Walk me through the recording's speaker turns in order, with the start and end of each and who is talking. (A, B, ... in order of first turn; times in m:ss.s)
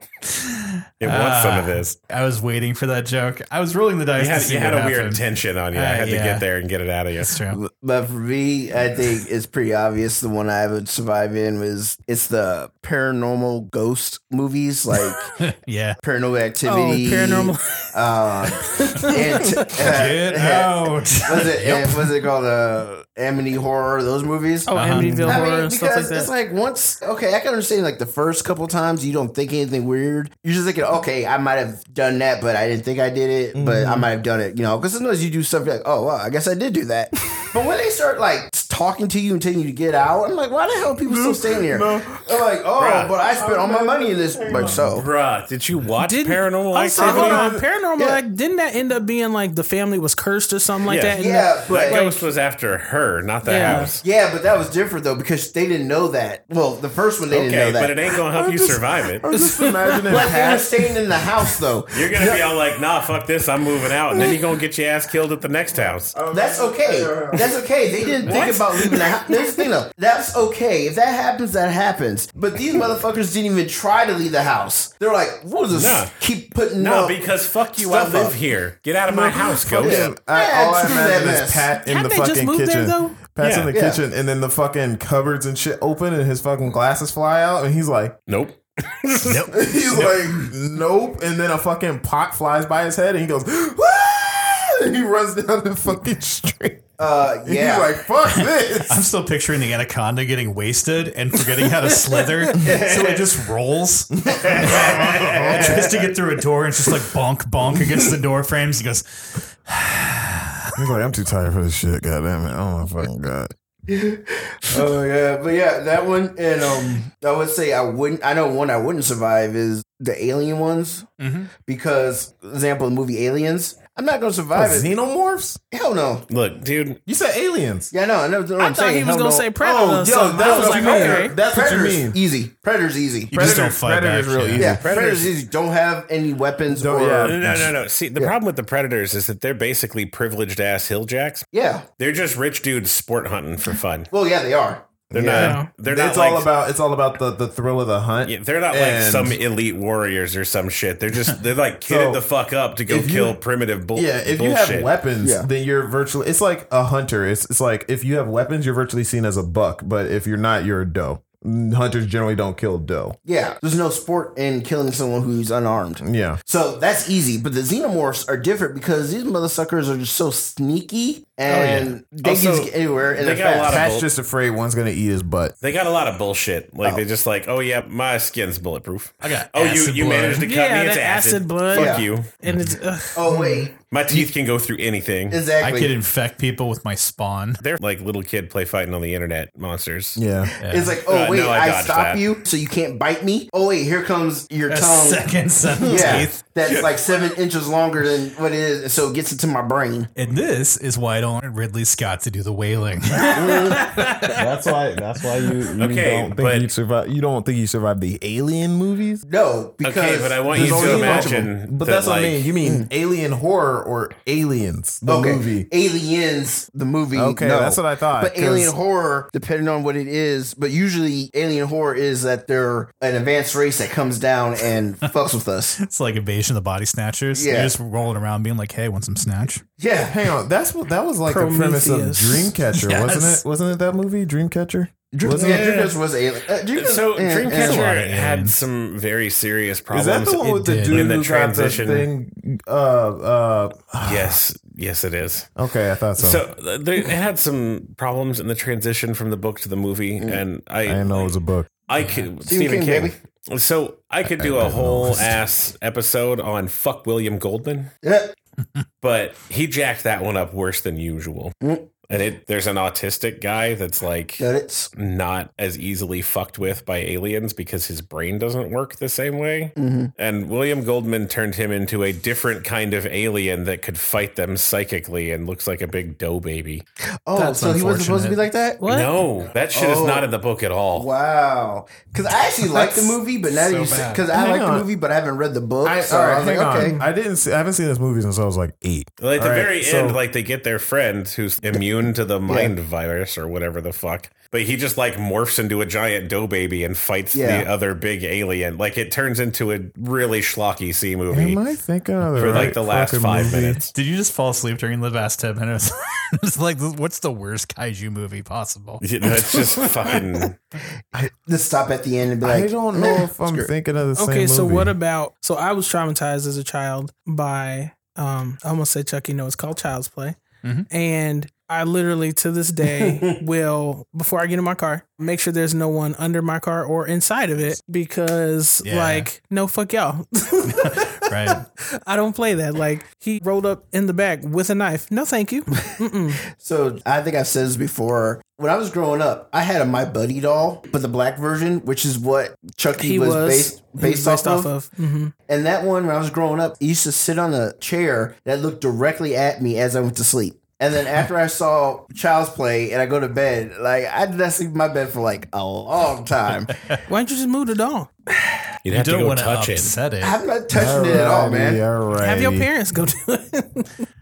0:00.3-0:06.4 A
0:01.0-0:02.0 B
0:04.2-0:07.4 B
0:07.2-0:07.6 A
0:07.5-0:15.3 C
0:15.4-0:16.0 A
0:16.0-0:24.7 C
0:16.6-0:17.9 D
0:18.6-0:19.8 D
0:19.6-0:22.1 A
0:24.6-0:26.3 D
0:24.7-0:25.4 A
0:25.2-0:45.0 C
0:33.5-0:34.1 E
0:41.0-0:42.4 E
0:42.8-0:43.1 B
0:43.2-0:44.9 E
0:44.6-0:47.5 B
0:46.0-0:52.2 D
0:47.0-0:47.6 E
0:48.0-0:48.2 C
0:50.8-0:54.0 B
0:51.2-0:52.0 C
0:53.4-0:54.0 D
0:54.0-0:58.0 C
0:57.3-0:59.2 B
0:58.3-1:00.9 E
0:59.4-1:00.3 D
1:00.0-1:02.4 C
1:01.9-1:06.2 B
1:02.1-1:02.4 E
1:04.1-1:04.4 E
1:06.1-1:09.4 E
1:06.3-1:18.4 C
1:08.3-1:09.1 D
1:15.7-1:16.1 B
1:16.8-1:20.1 B
1:19.1-1:28.2 E
1:19.3-1:21.7 C
1:21.8-1:23.2 D
1:23.4-1:23.7 B
1:23.7-1:24.0 C
1:28.3-1:29.5 B
1:29.2-1:30.5 A
1:29.4-1:36.9 E
1:37.0-1:37.9 C
1:37.4-1:39.1 E
1:38.2-1:50.5 A
1:42.6-1:43.3 C
1:44.1-1:46.0 E
1:44.3-1:46.1 C
1:50.8-1:53.5 E
1:53.9-2:01.1 C
2:01.2-2:01.5 A
2:01.6-2:04.9 C
2:04.5-2:05.6 E
2:05.7-2:06.2 C
2:06.3-2:07.0 B
2:07.0-2:07.9 E
2:07.9-2:09.5 C
2:08.6-2:11.4 D
2:09.6-2:12.2 E
2:10.3-2:13.5 C
2:13.3-2:14.8 A
2:13.3-2:15.0 E
2:14.6-2:17.5 C
2:14.6-2:15.3 B
2:16.7-2:17.7 E
2:17.2-2:21.5 B
2:21.5-2:21.8 C
2:22.0-2:24.1 B
2:24.1-2:25.6 C
2:25.1-2:29.4 E
2:25.1-2:26.5 B
2:25.4-2:25.7 D
2:28.2-2:34.9 B
2:31.8-2:32.2 E
2:32.9-2:33.4 E
2:33.9-2:43.2 E
2:35.2-2:35.5 C
2:43.2-2:53.9 C
2:46.0-2:46.4 E
2:51.5-2:51.9 A
2:52.2-2:54.1 B
2:53.6-2:55.5 E
2:55.6-3:02.3 B
2:59.2-3:00.5 A
3:00.4-3:03.4 D
3:01.7-3:02.1 C
3:02.4-3:02.8 A
3:03.1-3:04.3 C
3:03.8-3:05.4 B
3:05.3-3:06.0 C
3:05.6-3:07.6 A
3:07.6-3:10.2 B
3:10.2-3:10.5 E
3:10.6-3:15.3 C
3:10.6-3:10.9 A
3:11.0-3:12.4 B
3:14.7-3:16.4 A
3:15.8-3:20.1 C
3:15.9-3:16.3 E
3:16.0-3:16.9 B
3:20.1-3:24.4 A
3:23.4-3:29.2 E
3:23.4-3:23.8 C
3:25.8-3:26.7 B
3:29.2-3:31.4 C
3:29.8-3:32.5 B
3:30.5-3:35.7 E
3:32.6-3:32.9 C
3:35.0-3:45.8 C
3:37.1-3:38.7 E
3:45.8-3:49.6 A
3:47.3-3:47.7 C
3:49.8-3:50.2 C
3:50.1-3:55.7 E
3:51.2-3:52.5 D
3:52.7-3:53.4 A
3:55.1-3:57.9 C
3:55.3-3:56.0 B
3:56.7-4:02.1 B
3:57.5-3:58.6 A
3:59.9-4:04.4 E
4:00.5-4:01.0 A
4:04.0-4:05.5 B
4:05.6-4:06.4 E
4:06.2-4:11.3 B
4:10.8-4:11.7 E
4:11.9-4:17.9 B
4:12.5-4:13.1 C
4:14.3-4:15.4 E
4:18.0-4:18.3 C
4:19.0-4:21.5 B
4:21.6-4:21.9 C
4:22.1-4:36.8 B
4:24.4-4:24.9 C
4:29.8-4:30.1 C
4:37.2-4:38.8 C
4:37.3-4:38.4 A
4:38.8-4:39.2 D
4:38.9-4:41.1 B
4:39.7-4:40.3 C
4:40.9-4:47.0 C
4:43.5-4:44.2 A
4:44.3-4:44.9 E
4:45.8-4:50.2 E
4:49.2-5:01.6 B
4:52.5-4:52.7 C
4:57.3-4:57.7 C
5:01.3-5:03.9 E
5:02.3-5:03.9 B
5:02.4-5:02.7 A
5:03.9-5:09.0 A
5:09.0-5:10.6 B
5:11.1-5:13.7 C
5:12.4-5:14.9 E
5:14.2-5:20.4 D
5:20.6-5:20.9 A
5:20.9-5:31.2 D
5:22.9-5:23.4 C
5:28.8-5:29.3 A
5:30.6-5:31.6 A
5:32.0-5:36.4 D
5:35.8-5:44.7 C
5:43.0-5:45.3 D
5:45.5-5:57.0 C
5:57.1-5:58.1 D
5:58.3-5:58.7 C
5:58.8-6:00.0 B
5:58.9-6:00.4 A
6:00.2-6:01.8 C
6:00.7-6:02.7 E
6:02.2-6:04.1 D